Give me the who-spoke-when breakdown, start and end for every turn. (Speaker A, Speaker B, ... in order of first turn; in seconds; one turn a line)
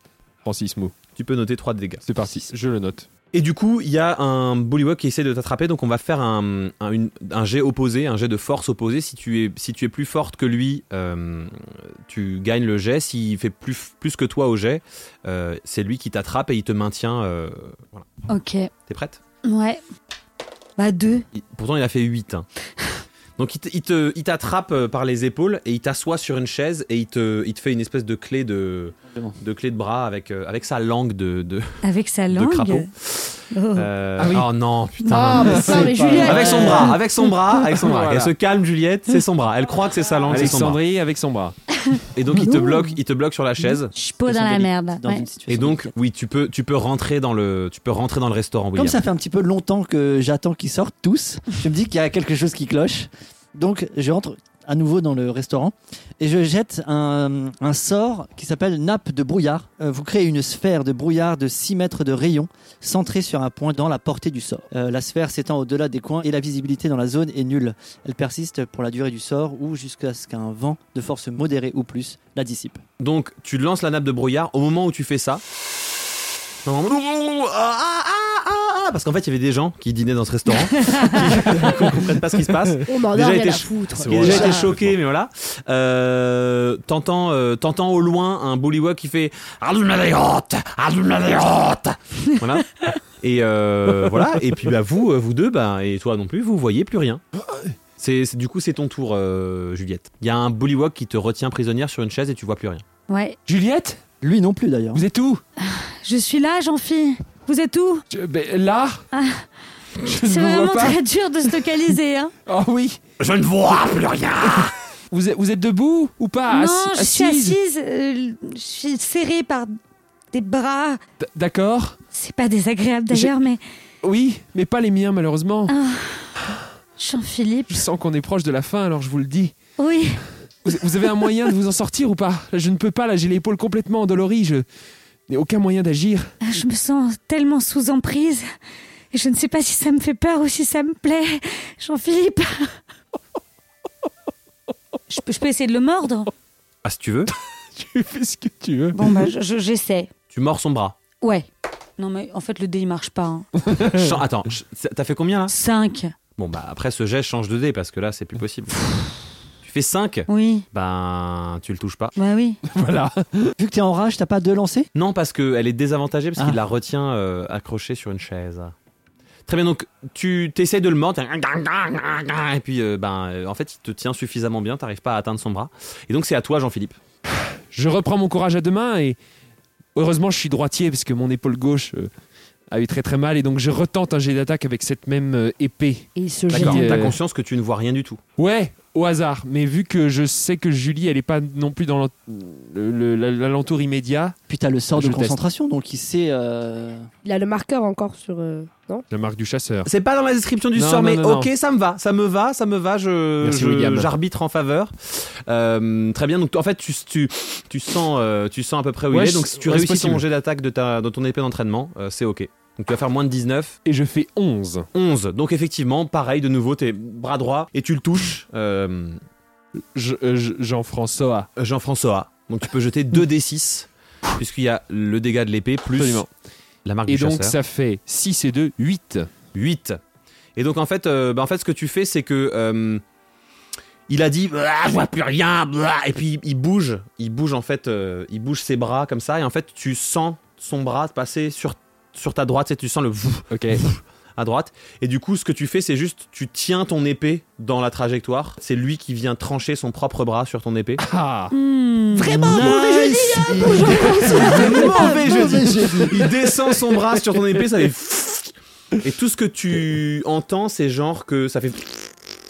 Speaker A: 0.4-0.9
Speaker B: 1.1-2.0
Speaker A: 2.0-3.1
Speaker B: 3.3-18.1
Speaker C: 18.3-18.7
Speaker B: 18.9-19.2
Speaker C: 19.4-19.8
Speaker C: 20.8-21.3
Speaker B: 21.3-22.4
Speaker B: 23.4-40.8
Speaker D: 29.1-29.4
Speaker C: 31.8-32.9
Speaker C: 33.5-33.9
Speaker A: 34.2-34.5
Speaker C: 35.0-36.9
Speaker E: 35.1-36.9
Speaker A: 35.5-35.9
Speaker D: 35.6-36.9
Speaker A: 37.6-38.3
Speaker A: 40.3-41.5
Speaker B: 42.1-43.9
Speaker E: 42.4-42.8
Speaker C: 43.9-45.2
Speaker D: 44.2-45.9
Speaker B: 45.5-49.0
Speaker D: 48.7-72.8
Speaker B: 73.0-75.4
Speaker B: 76.6-97.2
Speaker C: 80.8-81.2
Speaker A: 81.2-82.2
Speaker E: 82.9-84.7
Speaker A: 84.0-84.8
Speaker B: 98.0-102.8
Speaker C: 103.1-103.4
Speaker A: 103.5-104.0
Speaker D: 104.2-105.0
Speaker A: 104.9-105.4
Speaker C: 105.6-108.0
Speaker A: 108.1-109.0
Speaker C: 109.1-109.4
Speaker A: 110.0-111.0
Speaker C: 110.0-112.3
Speaker A: 112.5-113.0
Speaker B: 113.2-114.7
Speaker A: 114.4-117.6
Speaker C: 116.5-119.7
Speaker C: 120.3-121.0
Speaker A: 121.2-122.0
Speaker C: 122.1-123.6
Speaker A: 124.0-125.7
Speaker C: 125.7-126.4
Speaker C: 127.0-127.8
Speaker A: 127.7-129.5
Speaker C: 129.8-130.2
Speaker A: 130.6-134.6
Speaker A: 135.3-136.3
Speaker C: 136.4-138.4
Speaker C: 139.1-142.8
Speaker C: 145.1-146.3
Speaker B: 146.8-147.3
Speaker A: 147.7-149.3
Speaker C: 148.9-150.1
Speaker B: 150.3-151.0
Speaker C: 151.2-151.5
Speaker C: 152.0-153.5
Speaker A: 153.6-154.2
Speaker B: 153.9-155.5
Speaker C: 155.5-156.1
Speaker B: 156.4-158.9
Speaker B: 159.6-162.1
Speaker C: 160.3-160.7
Speaker C: 162.2-162.6
Speaker A: 162.7-163.5
Speaker D: 163.6-164.9
Speaker B: 164.9-168.7
Speaker B: 169.5-177.0
Speaker A: 177.4-179.2
Speaker A: 179.9-182.1
Speaker A: 182.7-187.2
Speaker E: 186.2-187.0
Speaker B: 186.5-188.2
Speaker A: 188.4-194.3
Speaker D: 194.5-197.1
Speaker A: 194.9-195.4
Speaker E: 197.2-199.1
Speaker A: 199.1-199.9
Speaker B: 199.8-213.8
Speaker A: 200.7-201.5
Speaker A: 203.4-204.1
Speaker A: 209.1-210.2
Speaker A: 213.8-214.8
Speaker B: 214.9-219.2
Speaker A: 219.9-221.5
Speaker B: 221.6-226.2
Speaker A: 225.9-226.3
Speaker B: 226.8-227.6
Speaker A: 227.1-229.3
Speaker B: 229.5-230.0
Speaker B: 230.6-233.0
Speaker B: 234.1-251.0
Speaker A: 243.5-243.8
Speaker A: 251.0-251.5
Speaker C: 251.5-255.1
Speaker D: 252.2-256.3
Speaker A: 252.3-252.8
Speaker A: 253.8-255.1
Speaker B: 254.3-262.1